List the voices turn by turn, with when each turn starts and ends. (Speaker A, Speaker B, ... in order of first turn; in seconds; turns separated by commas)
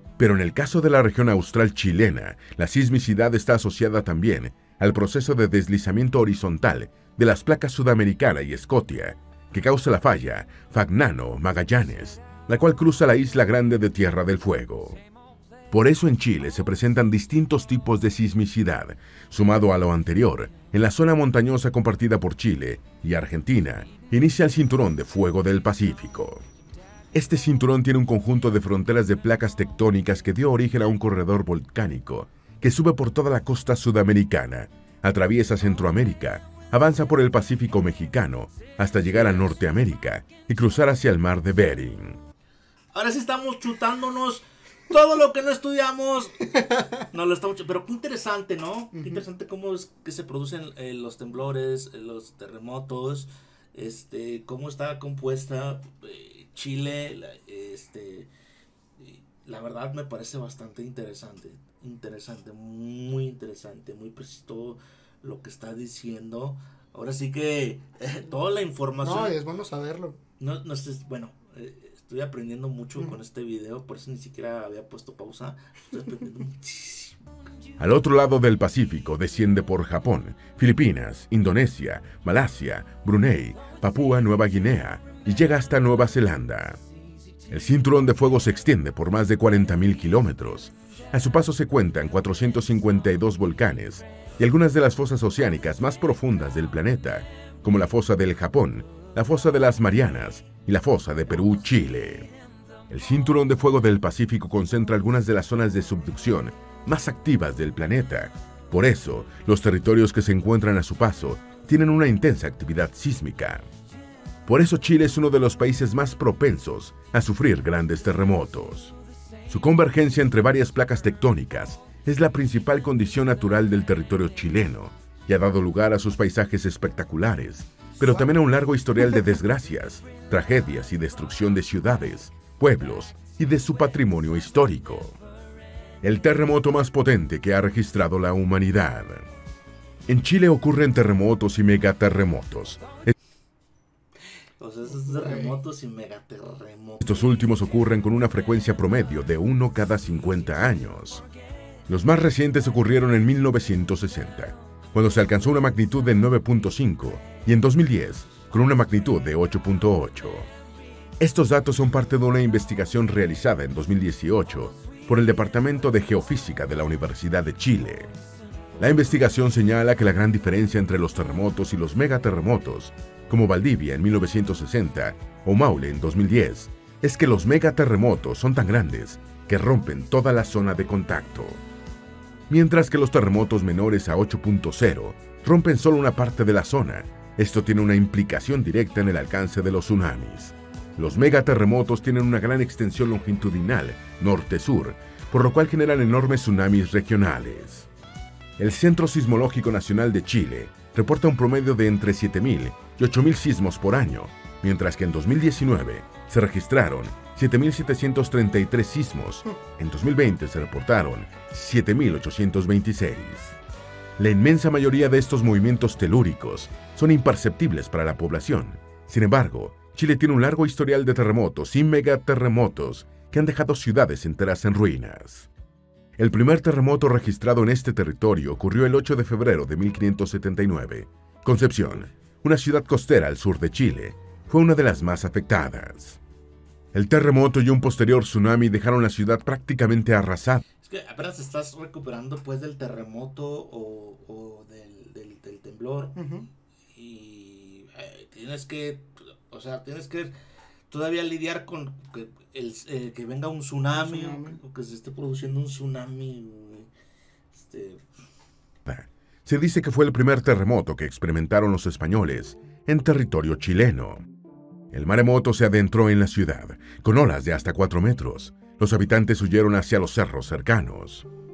Speaker A: 0.2-15.0, Speaker A: 15.7-26.4, Speaker A: 27.1-42.2, Speaker B: 39.1-39.5, Speaker B: 42.9-58.3, Speaker C: 49.0-49.2, Speaker B: 59.0-69.4, Speaker C: 69.0-70.2, Speaker B: 70.4-77.2, Speaker A: 77.8-86.8, Speaker A: 87.5-102.3, Speaker A: 102.9-113.7, Speaker A: 114.5-118.9, Speaker A: 119.5-135.2, Speaker A: 136.0-139.3, Speaker A: 140.1-143.1, Speaker B: 144.6-147.1, Speaker C: 145.0-145.6, Speaker A: 147.0-151.2, Speaker A: 151.9-160.5, Speaker A: 161.2-168.1, Speaker A: 168.8-181.6, Speaker A: 182.5-197.9, Speaker A: 198.6-213.6, Speaker A: 214.2-225.5, Speaker A: 226.2-236.2, Speaker A: 236.9-240.6, Speaker B: 240.8-246.2, Speaker C: 246.2-246.4, Speaker B: 246.9-250.3, Speaker B: 250.9-256.9, Speaker C: 253.9-254.6, Speaker B: 257.5-258.1, Speaker A: 258.9-264.2, Speaker A: 264.9-271.3